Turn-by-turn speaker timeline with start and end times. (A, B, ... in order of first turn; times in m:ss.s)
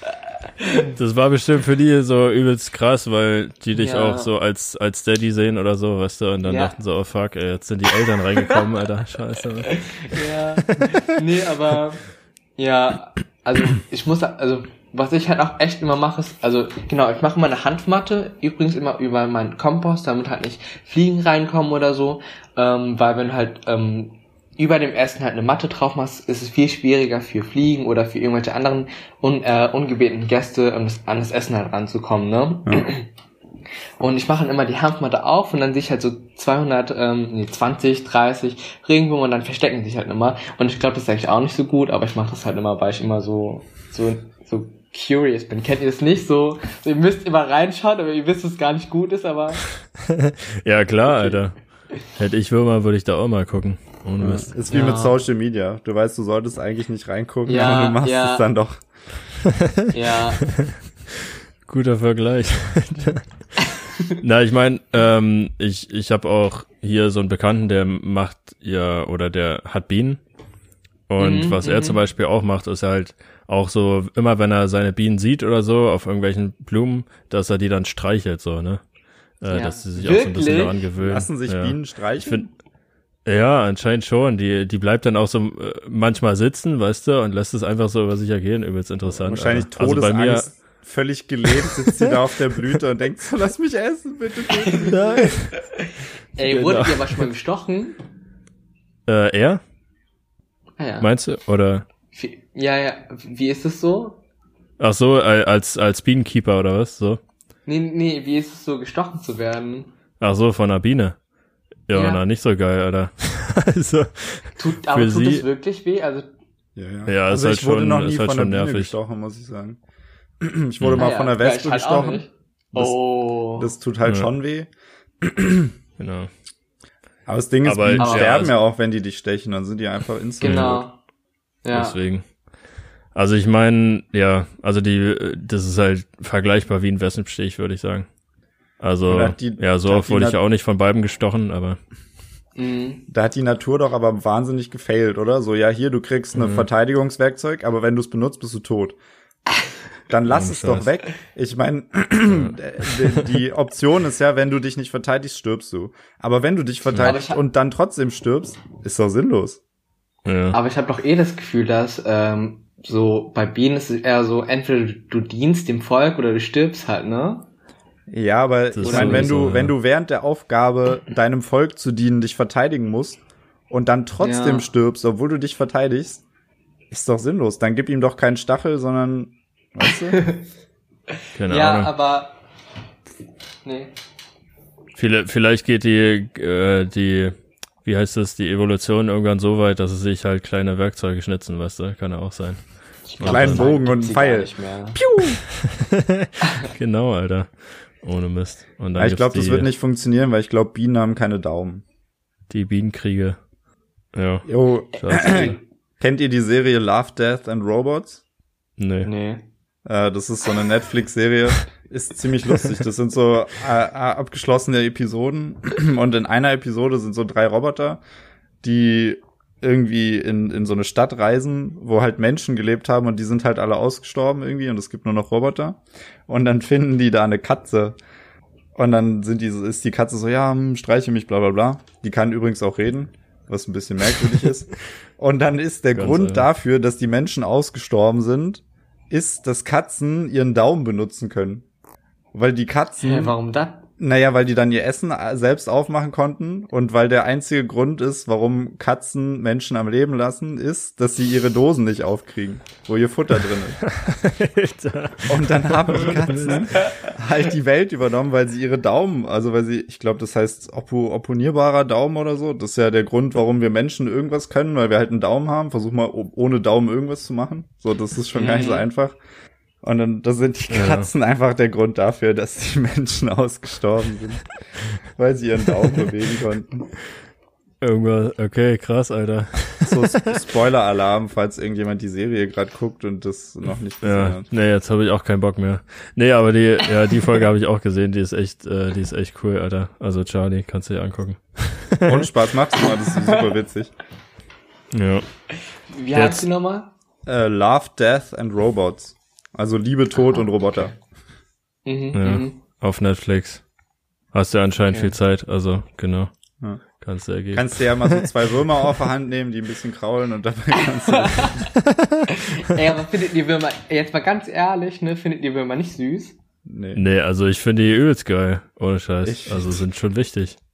0:00.6-0:00.8 A
0:00.9-0:11.0 B
0:03.7-0:04.3 A
0:06.4-0:06.7 A
0:09.7-0:12.0 A
0:12.6-0:33.1 A
0:34.0-0:49.6 A
0:50.1-0:54.6 B
0:51.1-0:51.4 A
0:54.2-0:58.8 C
0:54.7-0:55.2 A
0:57.5-0:58.4 A
0:59.9-1:00.5 A
1:00.5-1:00.8 B
1:01.7-1:10.2 B
1:11.1-1:18.8 B
1:11.2-1:12.0 A
1:19.4-1:22.5 B
1:19.5-1:20.8 A
1:21.0-1:22.4 C
1:23.2-1:30.5 B
1:29.2-1:35.3 C
1:31.6-1:32.2 B
1:34.9-1:35.7 B
1:36.4-1:38.0 A
1:36.4-1:37.2 B
1:39.1-1:39.6 B
1:40.8-1:41.1 A
1:41.0-1:41.8 B
1:42.1-1:44.2 A
1:44.8-1:47.2 B
1:47.6-1:49.9 A
1:50.2-1:51.2 B
1:51.9-1:55.4 B
1:51.9-1:52.2 A
1:54.6-1:56.3 A
1:56.8-1:59.8 C
1:57.1-1:58.9 B
2:00.4-2:03.0 C
2:00.8-2:01.1 B
2:01.0-2:03.7 A
2:03.5-2:04.7 C
2:04.0-2:04.3 B
2:05.2-2:05.7 C
2:06.0-2:06.3 B
2:07.3-2:10.8 C
2:07.6-2:08.5 B
2:08.0-2:08.3 A
2:10.4-2:11.0 A
2:10.4-2:10.8 B
2:11.6-2:12.0 A
2:11.7-2:12.2 B
2:13.1-2:18.1 B
2:18.8-2:21.8 B
2:19.1-2:20.4 C
2:22.6-2:23.0 A
2:23.1-2:29.0 C
2:26.4-2:26.7 B
2:30.1-2:39.6 C
2:30.3-2:30.9 B
2:32.3-2:33.2 B
2:36.9-2:37.2 B
2:37.0-2:37.4 A
2:40.2-2:40.6 B
2:40.5-2:47.4 A
2:48.1-2:56.2 C
2:48.7-2:49.7 B
2:48.8-2:49.3 A
2:54.2-2:54.6 A
2:56.9-3:00.2 C
3:00.1-3:00.4 A
3:01.3-3:01.9 B
3:01.5-3:02.3 A
3:03.6-3:03.9 A
3:05.0-3:13.7 B
3:13.1-3:15.0 A
3:13.2-3:15.4 C
3:15.2-3:19.7 B
3:19.0-3:21.8 C
3:22.5-3:23.4 B
3:24.1-3:25.6 B
3:24.5-3:28.2 C
3:28.8-3:29.1 B
3:29.0-3:29.4 A
3:29.8-3:38.0 C
3:38.6-3:48.0 C
3:48.8-4:01.6 C
3:56.0-3:56.4 B
4:02.3-4:03.3 C
4:03.0-4:03.8 A
4:04.0-4:13.8 C
4:13.8-4:16.8 B
4:15.3-4:29.2 C
4:28.3-4:28.8 A
4:29.8-4:34.5 C
4:30.7-4:31.1 B
4:35.0-4:36.9 C
4:37.8-4:40.3 B
4:39.8-4:44.4 C
4:44.0-4:52.3 B
4:52.0-4:53.9 C
4:54.9-4:55.2 B
4:55.9-4:56.9 A
4:56.1-4:56.4 B
4:57.2-5:01.0 C
5:01.8-5:02.6 A
5:02.1-5:03.6 B
5:04.3-5:06.3 B
5:07.0-5:08.3 B
5:07.5-5:11.7 C
5:11.1-5:11.7 A
5:12.3-5:16.4 A
5:16.7-5:17.0 C
5:17.0-5:20.6 B
5:19.2-5:19.8 C